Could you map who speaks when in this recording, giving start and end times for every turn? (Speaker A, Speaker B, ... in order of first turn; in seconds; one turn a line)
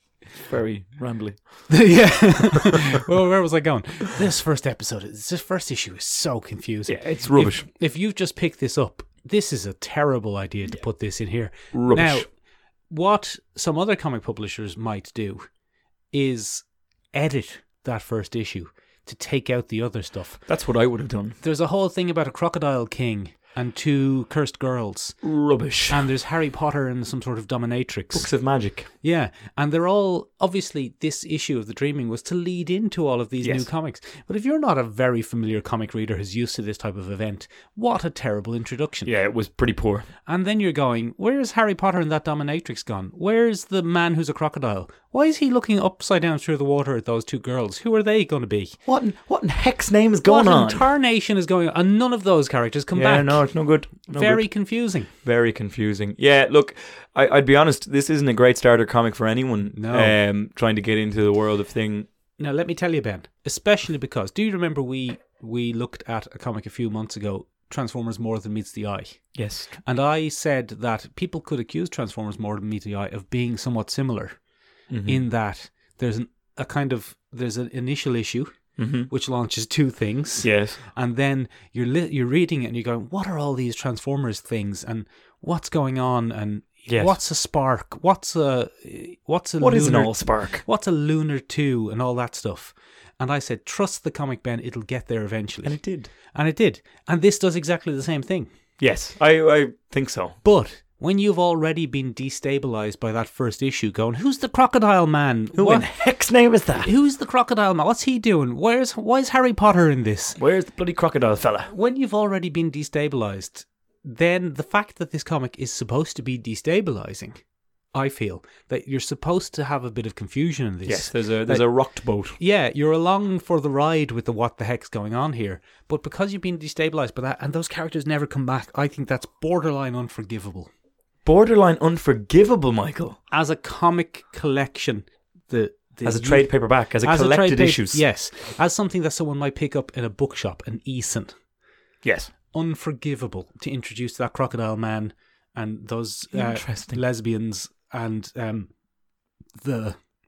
Speaker A: 0.4-1.8
Speaker B: 1.7-12.3
Speaker A: 6.9-7.7
Speaker A: 11.7-12.2
Speaker B: 12.9-15.5
Speaker B: 16.1-20.5
Speaker A: 20.5-21.4
Speaker B: 21.4-25.2
Speaker A: 25.2-26.0
Speaker B: 25.9-28.3
Speaker A: 28.1-28.9
Speaker B: 29.0-39.1
Speaker A: 33.4-33.7
Speaker A: 39.0-40.1
Speaker B: 40.2-48.8
Speaker A: 48.9-50.9
Speaker B: 50.2-53.5
Speaker A: 52.9-62.1
Speaker B: 54.1-55.1
Speaker B: 59.7-60.1
Speaker B: 62.4-74.4
Speaker A: 69.3-69.7
Speaker A: 74.9-75.2
Speaker B: 75.0-95.8
Speaker A: 78.8-79.1
Speaker A: 80.4-80.8
Speaker A: 86.9-87.2
Speaker A: 89.6-90.6
Speaker A: 95.6-96.1
Speaker B: 96.3-98.5
Speaker A: 98.8-100.4
Speaker B: 100.4-105.9
Speaker A: 105.5-106.9
Speaker B: 106.8-110.4
Speaker A: 110.4-111.7
Speaker B: 111.7-117.4
Speaker B: 117.9-121.7
Speaker A: 120.8-122.3
Speaker B: 122.3-130.7
Speaker A: 131.2-133.2
Speaker B: 133.3-141.3
Speaker A: 136.0-138.0
Speaker A: 142.0-142.3
Speaker B: 142.5-148.7
Speaker A: 146.3-147.0
Speaker B: 149.6-150.0